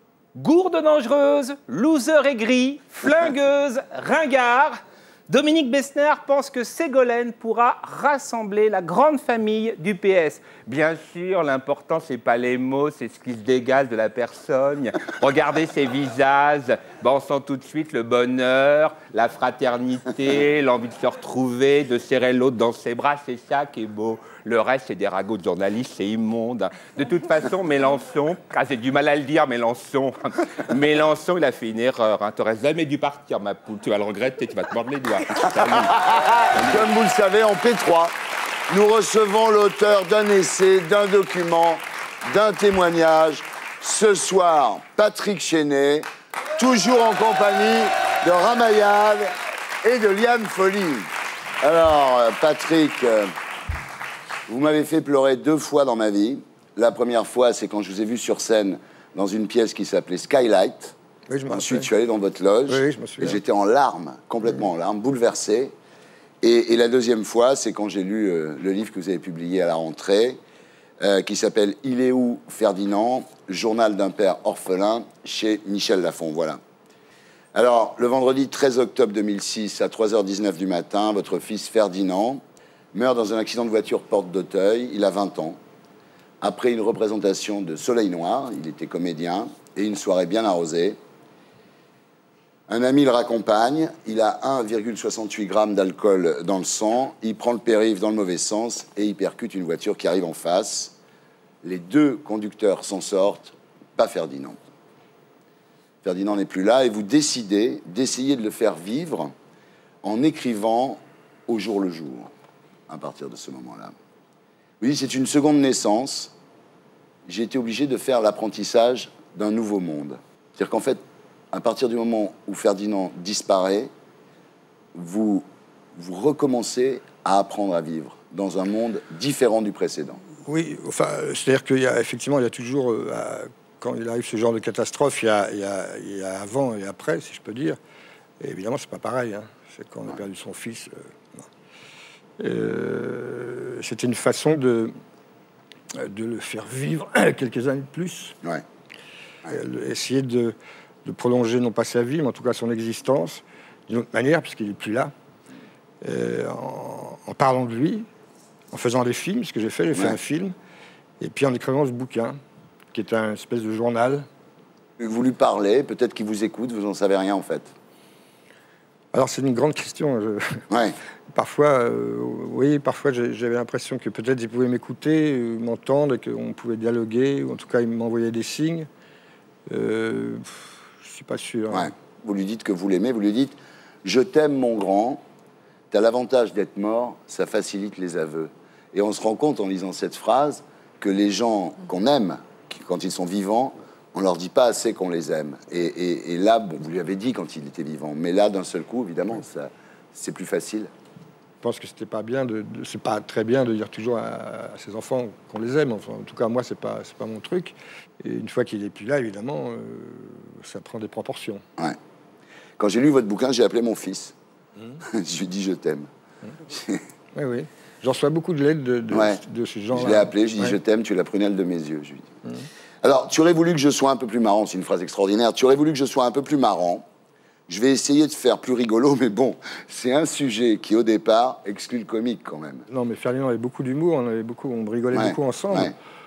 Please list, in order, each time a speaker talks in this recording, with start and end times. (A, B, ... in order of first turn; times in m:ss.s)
0:00.3-0:36.8 A
0:35.6-0:38.1 B
0:38.7-0:49.3 B
0:49.8-0:51.1 B
0:51.6-0:53.3 B
0:54.5-1:00.9 B
1:01.3-1:01.9 C
1:01.5-1:05.7 B
1:02.7-1:03.4 C
1:06.4-1:10.4 B
1:11.0-1:16.6 B
1:17.5-1:22.4 B
1:22.9-1:25.6 B
1:26.4-1:31.0 B
1:32.7-1:40.9 B
1:41.6-1:44.6 B
1:46.0-1:49.3 B
1:50.0-1:52.3 B
1:52.9-1:53.9 B
1:54.8-1:56.3 B
1:57.2-2:01.0 B
2:01.5-2:03.9 B
2:04.9-2:10.2 B
2:10.4-2:17.8 C
2:18.4-2:21.4 C
2:22.4-2:24.9 C
2:25.9-2:28.4 C
2:29.5-2:35.1 C
2:36.0-2:38.1 C
2:38.7-2:40.5 C
2:41.2-2:42.4 C
2:42.9-2:44.3 C
2:45.0-2:47.7 B
2:49.1-2:50.6 C
2:50.7-2:51.0 B
2:51.3-2:58.9 C
2:59.7-3:01.9 C
3:01.7-3:05.2 B
3:05.9-3:20.9 B
3:21.6-3:31.6 C
3:32.8-3:34.3 B
3:35.0-3:36.1 B
3:36.7-3:37.0 B
3:37.3-3:40.8 C
3:39.1-3:39.4 B
3:39.9-3:42.3 B
3:43.0-3:47.0 B
3:47.7-3:52.8 B
3:52.9-3:56.0 C
3:55.1-3:55.9 B